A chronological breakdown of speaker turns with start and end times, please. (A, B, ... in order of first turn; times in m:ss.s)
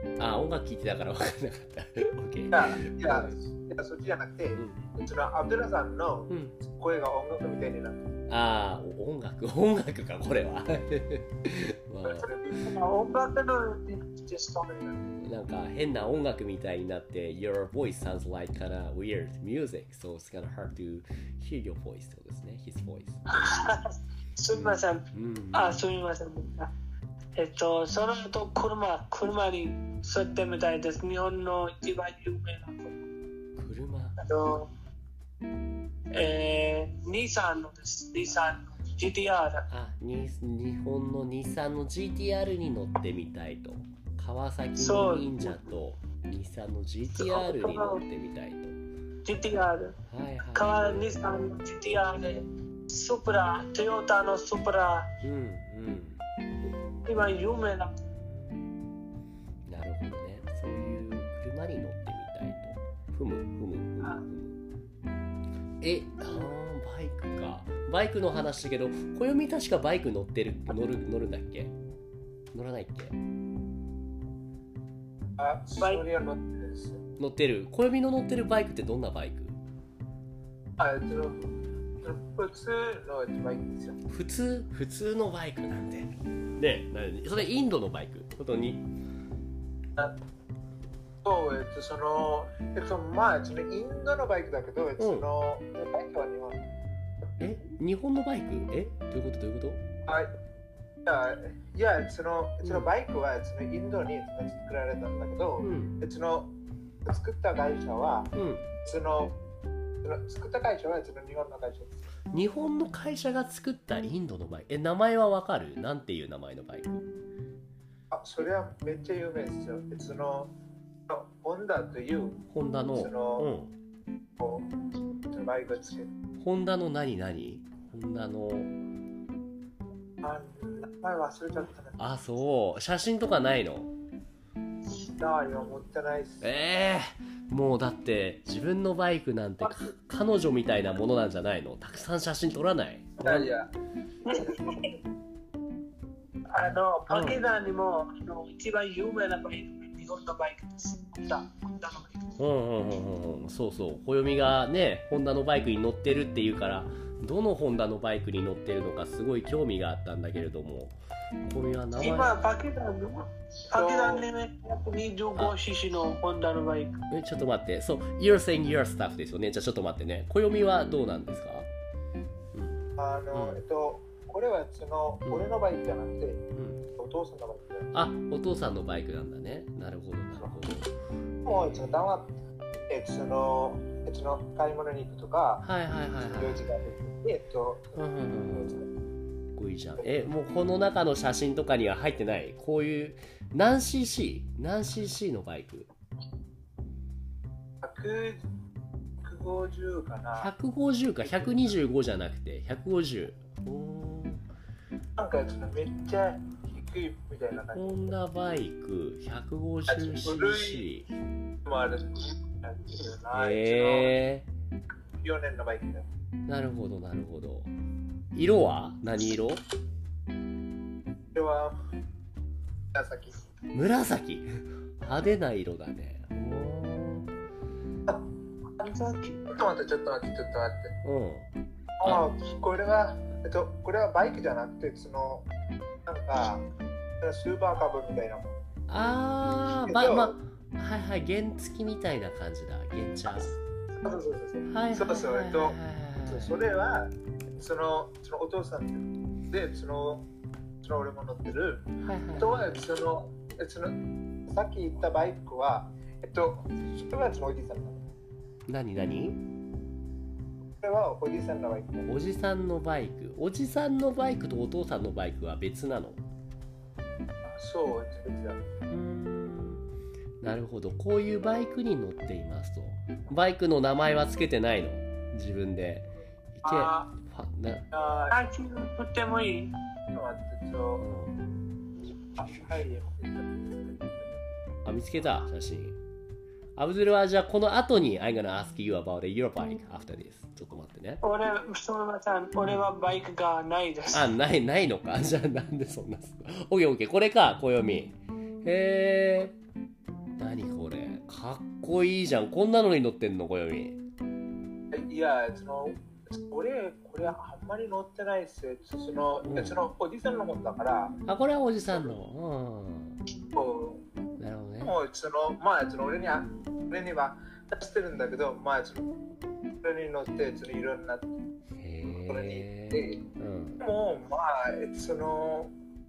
0:00.2-0:03.4 A
0:02.5-0:08.1 B
0:04.6-0:04.8 A
0:06.3-0:06.6 A
0:08.3-0:12.3 A
0:12.0-0:12.8 B
0:12.6-0:14.7 C
0:14.7-0:15.1 B
0:15.2-0:23.8 A
0:23.3-0:26.7 C
0:24.5-0:25.8 A
0:27.3-0:33.0 C
0:33.6-0:34.2 A
0:34.2-0:34.7 C
0:36.1-0:39.7 C
0:39.7-0:48.8 A
0:44.8-0:45.6 C
0:47.1-0:48.0 C
0:49.2-0:50.0 C
0:50.1-0:51.2 A
0:50.5-0:55.1 C
0:55.2-0:56.2 A
0:57.0-0:57.9 C
0:58.1-0:58.7 A
0:59.6-1:04.6 A
1:05.8-1:11.7 A
1:12.5-1:13.2 A
1:15.4-1:17.0 B
1:17.2-1:19.6 A
1:20.8-1:24.0 B
1:24.1-1:28.9 A
1:31.2-1:36.6 B
1:35.0-1:35.3 A
1:37.4-1:39.8 A
1:40.0-1:40.3 B
1:41.0-1:46.5 B
1:42.6-1:42.9 A
1:45.6-1:46.0 A
1:47.0-1:48.3 B
1:48.3-1:48.7 A
1:48.8-1:49.4 B
1:50.0-1:52.0 B
1:52.3-1:57.0 A
1:58.1-2:00.5 B
2:01.1-2:02.4 B
2:02.5-2:03.7 A
2:02.9-2:03.5 B
2:04.4-2:04.7 B
2:05.2-2:06.1 B
2:06.4-2:08.7 A
2:10.2-2:12.0 B
2:12.0-2:13.9 A
2:15.2-2:16.5 B
2:16.4-2:23.5 A
2:23.2-2:23.7 B
2:24.2-2:24.8 B
2:24.2-2:24.9 C
2:26.5-2:32.2 C
2:27.1-2:27.4 A
2:32.4-2:42.4 A
2:42.0-2:47.0 C
2:43.7-2:44.2 B
2:47.1-2:51.7 A
2:52.5-2:53.6 A
2:53.0-2:56.4 B
2:55.2-2:55.5 A
2:56.5-2:56.8 A
2:57.0-2:57.9 B
2:57.9-3:02.1 A
3:01.4-3:02.3 B
3:02.9-3:05.6 B
3:05.6-3:06.7 A
3:06.3-3:08.8 B
3:08.0-3:08.8 A
3:09.6-3:15.9 A
3:17.8-3:18.4 B
3:19.2-3:20.5 B
3:20.4-3:24.4 A
3:25.2-3:28.1 B
3:27.7-3:31.1 A
3:29.9-3:30.9 B
3:31.6-3:34.2 B
3:33.3-3:34.5 A
3:35.2-3:36.1 B
3:36.5-3:37.7 A
3:38.3-3:39.6 A
3:41.3-3:41.8 B
3:42.9-3:43.4 B
3:43.7-3:47.3 A
3:48.8-3:49.4 C
3:49.5-3:51.0 B
3:51.0-3:51.5 A
3:52.0-3:55.5 B
3:56.0-3:56.6 B
3:57.2-3:58.6 B
3:58.9-4:03.6 A
3:59.8-4:00.4 B
4:03.9-4:10.2 B
4:04.6-4:06.6 A
4:10.8-4:11.8 B
4:12.0-4:12.8 A
4:12.4-4:18.0 B
4:18.7-4:19.4 A
4:20.8-4:22.1 B
4:22.0-4:26.2 A
4:27.4-4:28.6 B
4:28.9-4:29.8 A
4:30.4-4:37.9 A
4:36.6-4:37.1 B
4:37.9-4:38.4 B
4:38.3-4:39.7 C
4:40.1-4:41.0 B
4:41.0-4:41.4 A
4:42.3-4:44.4 B
4:44.8-4:46.0 A
4:46.8-4:51.2 A
4:51.2-4:54.3 C
4:54.1-4:59.6 A
5:00.4-5:04.0 A
5:04.9-5:11.2 B
5:09.4-5:09.8 A
5:11.2-5:13.2 A
5:13.5-5:14.0 B
5:14.4-5:15.0 A
5:14.8-5:19.1 B
5:19.8-5:21.3 B
5:21.8-5:23.8 A
5:22.3-5:23.2 B
5:23.8-5:25.7 B